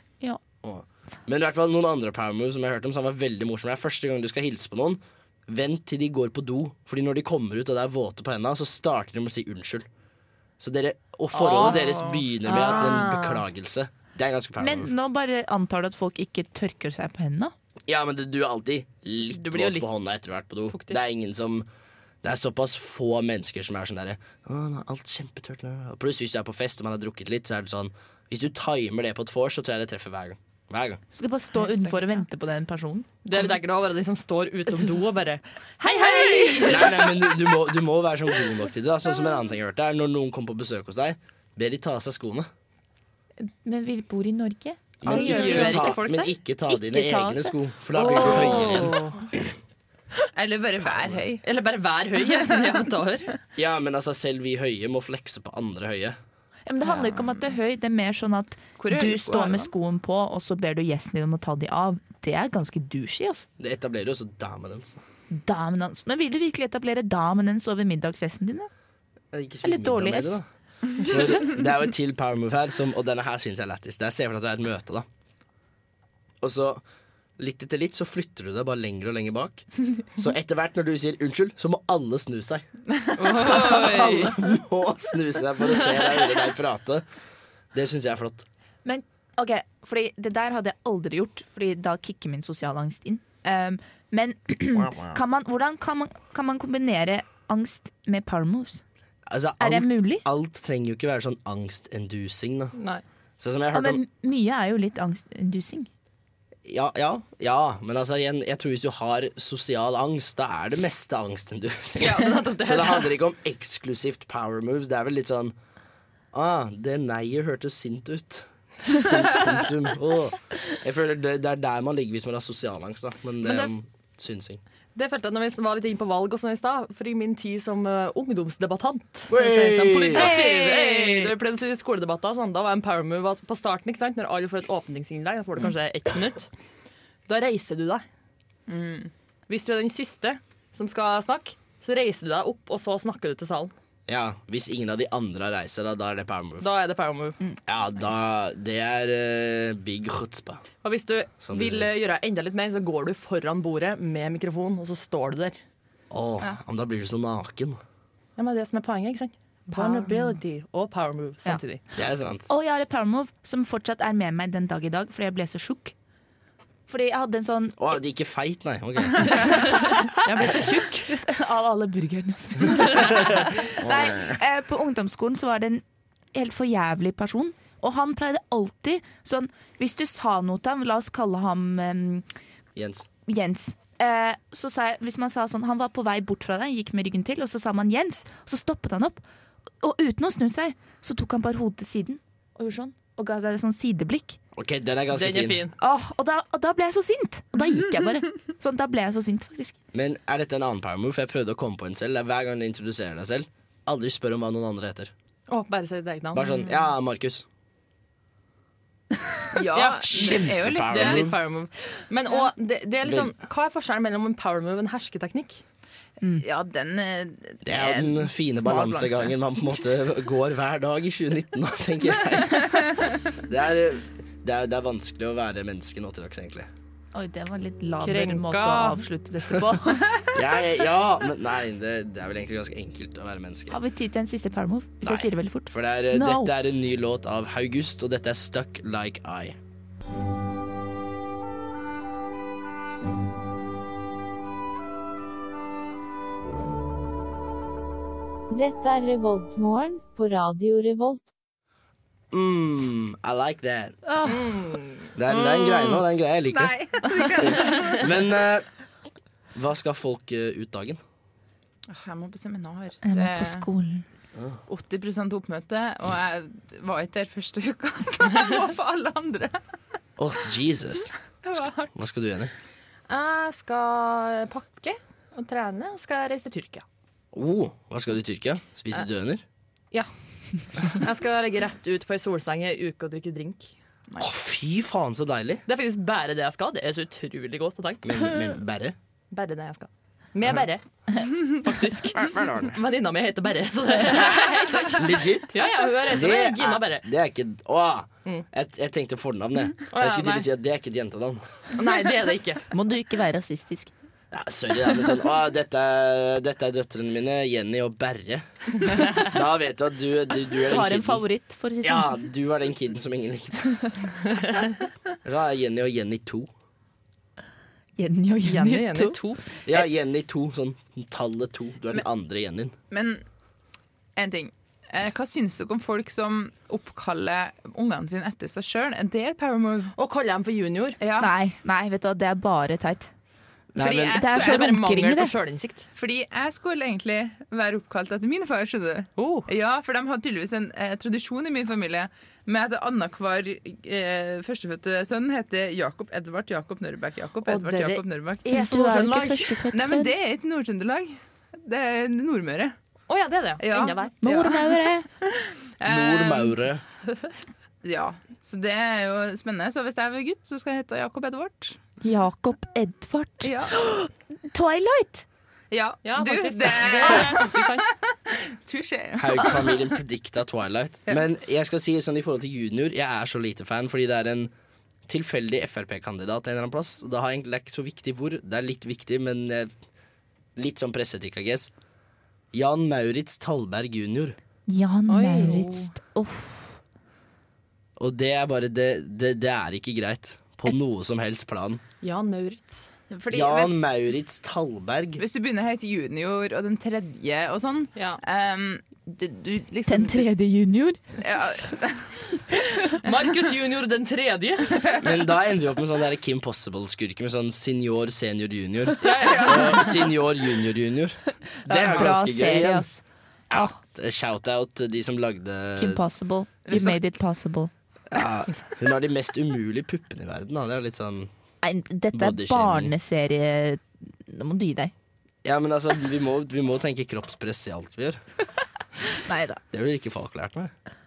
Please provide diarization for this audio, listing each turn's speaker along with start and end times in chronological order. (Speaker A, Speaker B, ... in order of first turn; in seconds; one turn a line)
Speaker A: 0.6-9.9
Speaker A: 10.6-14.9
Speaker B: 11.3-13.4
Speaker C: 14.6-17.5
Speaker A: 17.9-21.7
Speaker B: 19.3-19.9
Speaker B: 20.7-21.0
Speaker A: 22.2-31.0
Speaker C: 31.1-33.1
Speaker D: 31.6-32.2
Speaker B: 33.2-37.1
Speaker C: 35.8-36.9
Speaker A: 36.7-42.5
Speaker C: 43.4-46.0
Speaker A: 45.0-49.4
Speaker B: 45.1-46.3
Speaker C: 46.7-49.0
Speaker B: 48.0-49.2
Speaker D: 50.4-51.4
Speaker A: 50.8-51.2
Speaker B: 51.4-53.4
Speaker A: 53.6-56.2
Speaker C: 56.7-63.5
Speaker D: 56.8-57.5
Speaker D: 58.8-59.7
Speaker A: 63.6-65.0
Speaker C: 65.3-68.7
Speaker A: 69.3-70.5
Speaker C: 69.6-70.4
Speaker A: 71.0-75.0
Speaker A: 76.4-76.8
Speaker A: 77.4-82.7
Speaker D: 83.0-83.8
Speaker B: 83.2-84.4
Speaker A: 83.4-87.0
Speaker A: 87.7-88.5
Speaker C: 88.8-98.8
Speaker A: 94.7-95.2
Speaker A: 99.3-102.8
Speaker C: 99.6-100.3
Speaker B: 102.8-103.0
Speaker A: 103.4-104.0
Speaker C: 103.7-105.9
Speaker A: 106.7-115.5
Speaker B: 112.0-113.2
Speaker A: 116.3-124.6
Speaker B: 123.4-123.7
Speaker B: 125.0-136.5
Speaker A: 129.3-130.4
Speaker C: 130.2-131.2
Speaker B: 137.3-138.0
Speaker D: 138.7-139.1
Speaker B: 139.5-143.7
Speaker A: 144.1-146.7
Speaker B: 146.6-147.4
Speaker A: 147.7-150.6
Speaker B: 150.8-155.6
Speaker A: 151.4-151.9
Speaker A: 156.1-157.8
Speaker B: 158.4-161.8
Speaker C: 159.7-160.4
Speaker A: 162.0-162.5
Speaker C: 162.5-165.9
Speaker C: 166.9-168.0
Speaker A: 167.8-169.7
Speaker B: 169.3-171.2
Speaker C: 169.9-182.3
Speaker A: 173.0-174.4
Speaker A: 182.8-183.1
Speaker C: 183.3-189.2
Speaker C: 189.8-194.4
Speaker A: 194.5-195.6
Speaker B: 195.1-195.8
Speaker C: 195.8-199.8
Speaker A: 199.9-205.1
Speaker B: 205.5-206.7
Speaker A: 206.3-207.5
Speaker D: 209.6-211.3
Speaker B: 209.7-215.6
Speaker A: 210.0-211.3
Speaker A: 213.0-213.3
Speaker C: 216.2-216.4
Speaker D: 216.4-219.4
Speaker A: 217.7-226.7
Speaker C: 227.1-230.2
Speaker B: 228.0-230.0
Speaker A: 230.3-233.8
Speaker C: 233.7-236.5
Speaker A: 235.0-239.6
Speaker E: 248.5-251.2
Speaker A: 252.3-254.0
Speaker C: 254.1-254.4
Speaker B: 254.2-255.1
Speaker A: 255.2-256.8
Speaker D: 255.5-256.0
Speaker D: 256.5-258.1
Speaker A: 257.4-258.7
Speaker A: 259.5-261.0
Speaker D: 261.9-263.7
Speaker C: 263.1-264.0
Speaker D: 264.7-269.6
Speaker A: 270.2-272.5
Speaker D: 271.4-271.9
Speaker B: 273.1-276.9
Speaker A: 277.3-279.4
Speaker B: 280.7-283.8
Speaker A: 284.2-285.6
Speaker B: 285.7-288.1
Speaker A: 288.0-289.0
Speaker B: 289.3-297.1
Speaker A: 292.2-292.8
Speaker A: 294.9-301.4
Speaker B: 299.9-300.5
Speaker B: 301.8-302.7
Speaker C: 302.7-303.9
Speaker A: 304.3-311.3
Speaker C: 310.6-312.2
Speaker A: 311.8-314.0
Speaker A: 315.2-316.5
Speaker C: 318.0-319.2
Speaker B: 318.4-319.6
Speaker A: 319.6-322.8
Speaker D: 322.9-323.2
Speaker D: 324.2-329.9
Speaker B: 330.0-331.0
Speaker D: 331.0-331.3
Speaker C: 331.2-333.1
Speaker A: 333.7-334.2
Speaker D: 333.8-334.8
Speaker C: 334.1-335.3
Speaker B: 334.3-335.9
Speaker D: 335.9-348.5
Speaker B: 339.2-339.5
Speaker B: 347.5-349.6
Speaker C: 348.5-350.1
Speaker D: 349.7-352.8
Speaker B: 353.1-354.1
Speaker D: 353.6-356.6
Speaker C: 354.2-355.1
Speaker A: 355.9-356.8
Speaker D: 357.8-361.8
Speaker C: 362.0-365.2
Speaker D: 363.4-363.8
Speaker D: 365.7-369.9
Speaker B: 366.0-367.9
Speaker A: 369.2-374.5
Speaker A: 375.1-379.7
Speaker A: 380.6-381.7
Speaker A: 382.5-384.4
Speaker C: 384.7-386.8
Speaker B: 385.1-385.9
Speaker A: 388.0-391.8
Speaker B: 392.0-392.9
Speaker D: 393.1-393.9
Speaker A: 393.3-395.2
Speaker D: 395.2-400.3
Speaker C: 399.9-401.7
Speaker D: 401.2-402.3
Speaker B: 403.0-404.9
Speaker A: 405.0-413.0
Speaker B: 409.0-410.1
Speaker D: 409.1-409.8
Speaker C: 411.7-412.9
Speaker D: 411.9-412.1
Speaker C: 413.5-413.8
Speaker A: 413.6-416.1
Speaker C: 415.8-417.7
Speaker D: 416.7-417.0
Speaker A: 416.7-417.0
Speaker A: 418.1-421.3
Speaker C: 421.6-424.9
Speaker A: 422.1-422.9
Speaker A: 425.4-428.2
Speaker C: 429.1-429.6
Speaker A: 429.7-430.7